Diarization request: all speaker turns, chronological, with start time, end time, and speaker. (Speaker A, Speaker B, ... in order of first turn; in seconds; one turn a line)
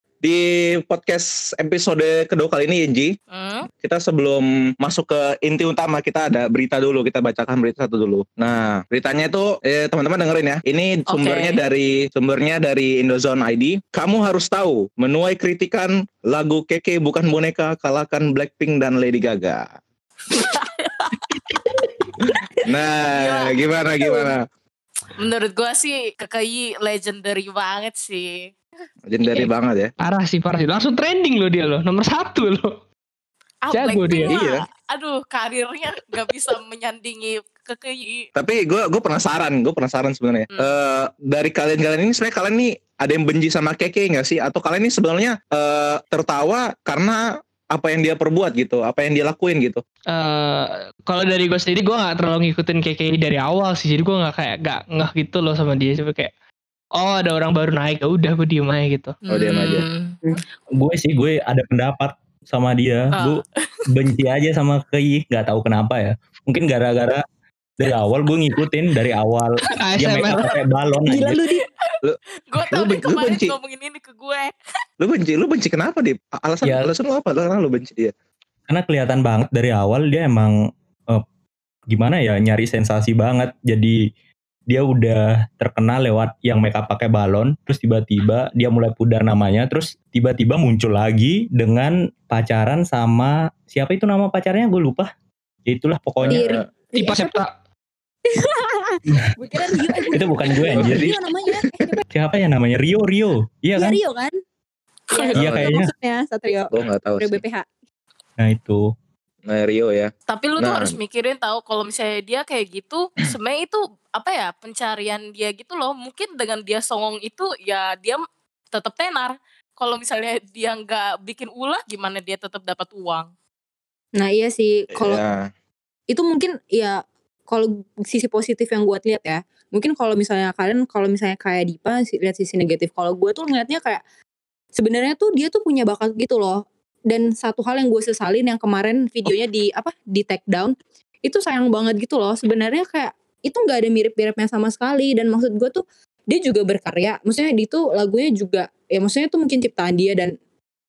Speaker A: 0.2-3.1
Speaker B: 3.3-3.7
Speaker A: 3.8-19.8
Speaker B: 11.1-11.6
Speaker B: 20.3-21.3
Speaker C: 21.5-21.9
Speaker A: 22.2-24.4
Speaker B: 23.1-24.3
Speaker B: 25.2-28.5
Speaker A: 29.1-29.9
Speaker C: 30.0-32.8
Speaker B: 33.6-38.3
Speaker C: 33.7-34.4
Speaker A: 34.3-34.6
Speaker A: 38.4-49.8
Speaker C: 50.1-56.3
Speaker C: 57.0-59.2
Speaker B: 59.3-60.2
Speaker A: 59.3-59.9
Speaker D: 60.8-67.2
Speaker B: 63.1-63.7
Speaker D: 67.8-71.4
Speaker C: 69.9-70.6
Speaker E: 71.1-71.7
Speaker A: 72.0-73.5
Speaker B: 72.5-74.5
Speaker A: 75.0-78.1
Speaker D: 76.6-76.9
Speaker D: 78.7-80.5
Speaker D: 81.9-84.0
Speaker D: 84.7-95.1
Speaker D: 95.7-96.4
Speaker A: 96.2-96.7
Speaker E: 96.3-97.4
Speaker C: 97.0-97.5
Speaker E: 98.3-102.0
Speaker D: 100.1-101.1
Speaker A: 100.8-101.2
Speaker D: 102.1-104.0
Speaker E: 103.8-104.4
Speaker B: 105.1-105.3
Speaker E: 105.1-107.7
Speaker A: 105.3-105.7
Speaker D: 105.4-105.9
Speaker A: 106.7-107.4
Speaker D: 108.4-108.8
Speaker A: 109.5-111.0
Speaker B: 110.3-118.2
Speaker B: 118.7-123.3
Speaker E: 124.2-125.2
Speaker A: 124.9-125.5
Speaker E: 126.1-134.0
Speaker E: 134.8-150.3